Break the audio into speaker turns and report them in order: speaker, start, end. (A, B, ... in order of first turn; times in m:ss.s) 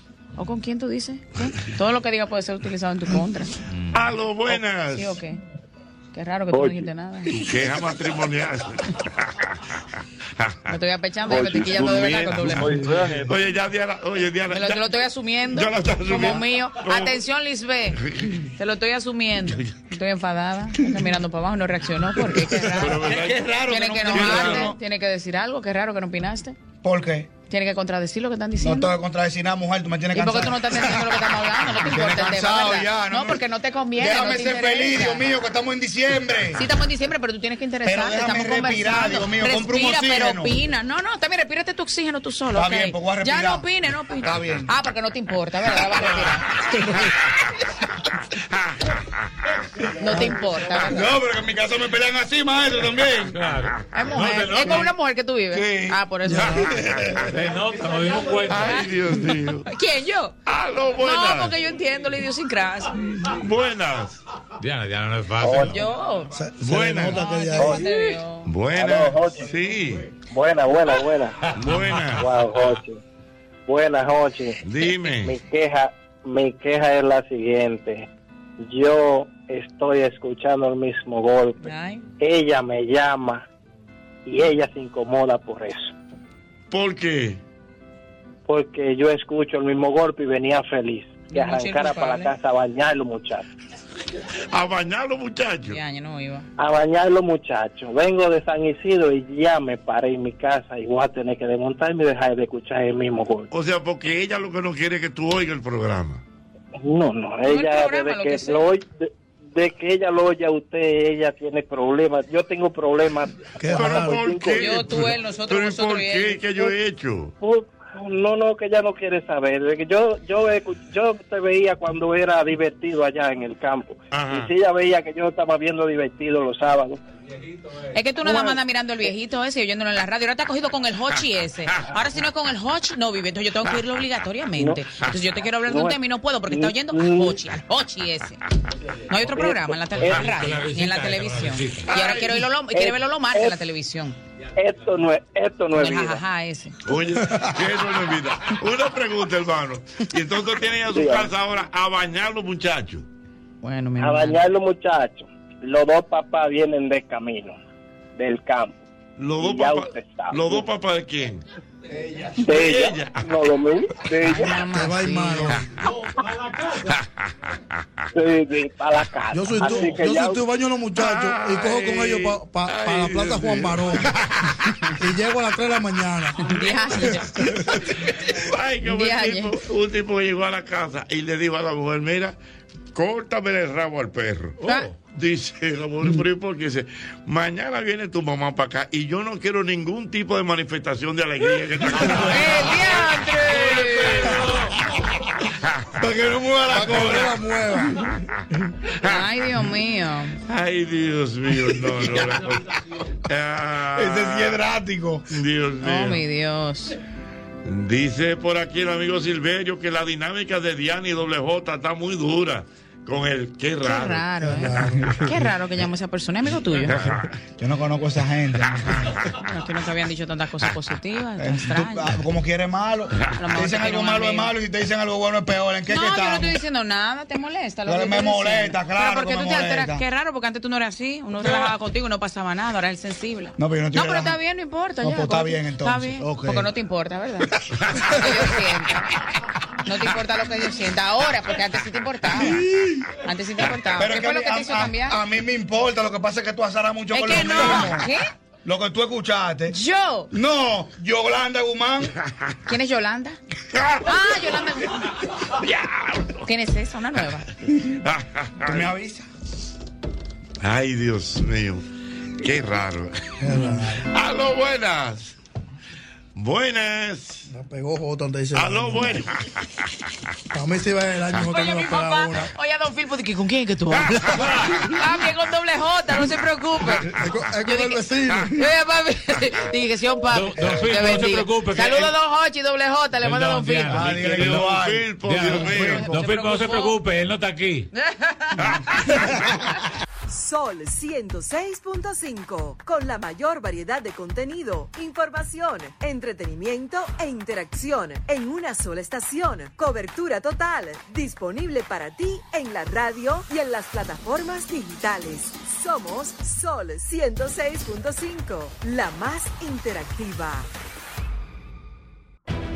0:00.4-0:03.5 A
0:03.9-0:05.2 B
0:04.5-0:05.4 A
0:06.1-0:07.3 A
0:07.3-0:09.3 B
0:10.7-0:12.9 A
0:11.8-0:12.6 B
0:13.2-0:14.8 B
0:14.5-0:18.0 A
0:15.5-0:17.2 B
0:18.0-0:18.3 B
0:18.6-0:23.1 A
0:22.8-0:24.8 C
0:22.8-0:23.4 B
0:23.6-0:26.6 A
0:24.1-0:24.7 B
0:26.8-0:27.4 C
0:27.4-0:28.9 A
0:28.6-0:31.2 C
0:30.1-0:35.2 A
0:31.8-0:33.4 C
0:33.9-0:36.6 C
0:36.6-0:47.1 A
0:37.8-0:40.6 C
0:42.5-0:43.7 C
0:44.2-0:44.7 C
0:50.0-0:51.1 A
0:50.7-0:53.4 C
0:53.3-0:54.8 D
0:53.9-0:56.7 A
0:55.6-0:56.0 C
0:56.3-0:56.6 E
0:56.7-0:57.2 C
0:57.3-0:58.8 D
0:58.4-0:59.7 B
0:59.5-1:00.3 A
1:00.4-1:01.6 B
1:01.0-1:02.9 A
1:03.4-1:04.2 B
1:04.6-1:05.9 D
1:05.4-1:05.7 F
1:05.5-1:06.3 A
1:06.3-1:07.8 E
1:06.6-1:07.2 B
1:07.1-1:08.5 A
1:08.4-1:10.1 B
1:08.8-1:09.4 F
1:10.3-1:11.3 F
1:11.5-1:12.6 B
1:12.2-1:13.0 F
1:13.7-1:18.1 F
1:14.6-1:15.4 B
1:18.6-1:21.6 F
1:21.6-1:22.0 A
1:22.2-1:23.4 F
1:24.2-1:25.9 F
1:26.7-1:27.4 B
1:28.5-1:33.4 F
1:31.3-1:32.3 A
1:34.5-1:35.8 B
1:35.6-1:36.5 A
1:36.6-1:43.5 F
1:43.5-1:46.2 B
1:46.8-1:48.9 F
1:47.4-1:48.8 A
1:49.5-1:53.4 F
1:53.6-1:54.2 E
1:53.7-1:57.3 B
1:53.9-1:54.6 F
1:54.5-1:56.4 A
1:57.4-2:07.0 F
2:04.1-2:04.5 B
2:07.9-2:18.4 A
2:15.7-2:16.0 F
2:16.5-2:17.3 F
2:19.1-2:24.2 A
2:19.3-2:20.3 F
2:19.9-2:22.0 D
2:21.9-2:22.4 B
2:22.7-2:23.6 F
2:24.6-2:26.2 F
2:25.7-2:26.8 A
2:26.8-2:33.0 B
2:30.9-2:31.3 F
2:33.6-2:34.4 A
2:34.0-2:37.6 F
2:38.2-2:38.8 F
2:39.2-2:41.4 B
2:39.4-2:40.6 F
2:42.4-2:43.3 B
2:42.4-2:44.4 F
2:44.2-2:45.6 A
2:44.6-2:45.6 E
2:48.1-2:50.4 F
2:49.3-2:54.1 E
2:50.9-2:54.4 B
2:55.0-2:56.5 E
2:56.4-2:57.4 A
2:58.3-3:02.4 B
2:58.8-2:59.5 A
3:02.9-3:04.6 B
3:04.6-3:04.9 D
3:04.6-3:04.9 A
3:05.1-3:13.0 B
3:12.2-3:14.2 A
3:13.5-3:14.7 D
3:16.0-3:17.3 C
3:16.7-3:18.0 E
3:19.0-3:20.4 A
3:20.5-3:22.7 B
3:23.2-3:24.6 B
3:24.0-3:25.2 C
3:25.3-3:26.2 B
3:25.8-3:26.9 A
3:27.6-3:34.3 B
3:33.8-3:34.7 A
3:34.4-3:35.3 E
3:35.2-3:36.9 A
3:36.9-3:37.2 B
3:37.6-3:39.2 C
3:39.4-3:42.1 A
3:41.4-3:46.6 C
3:43.3-3:44.5 A
3:45.9-3:59.1 A
3:47.8-3:50.0 C
3:53.6-3:54.4 C
3:55.0-3:56.7 C
3:59.8-4:02.7 A
4:02.4-4:03.0 C
4:03.2-4:05.2 A
4:04.0-4:08.1 C
4:07.1-4:08.2 A
4:08.6-4:09.7 C
4:09.7-4:10.3 A
4:10.3-4:12.1 C
4:12.6-4:13.4 A
4:13.7-4:14.0 B
4:14.0-4:15.0 A
4:15.6-4:16.4 B
4:16.4-4:17.5 A
4:18.0-4:18.8 B
4:18.6-4:19.2 C
4:20.6-4:21.8 B
4:22.4-4:25.3 B
4:23.4-4:24.1 E
4:26.4-4:27.4 B
4:27.5-4:29.3 E
4:28.5-4:29.4 B
4:30.5-4:32.5 E
4:31.4-4:37.1 A
4:37.0-4:38.5 E
4:37.6-4:43.9 A
4:40.3-4:42.1 D
4:43.2-4:47.9 D
4:43.9-4:46.1 C
4:44.0-4:46.2 B
4:46.2-4:47.0 A
4:48.0-4:48.6 A
4:50.3-5:10.7 G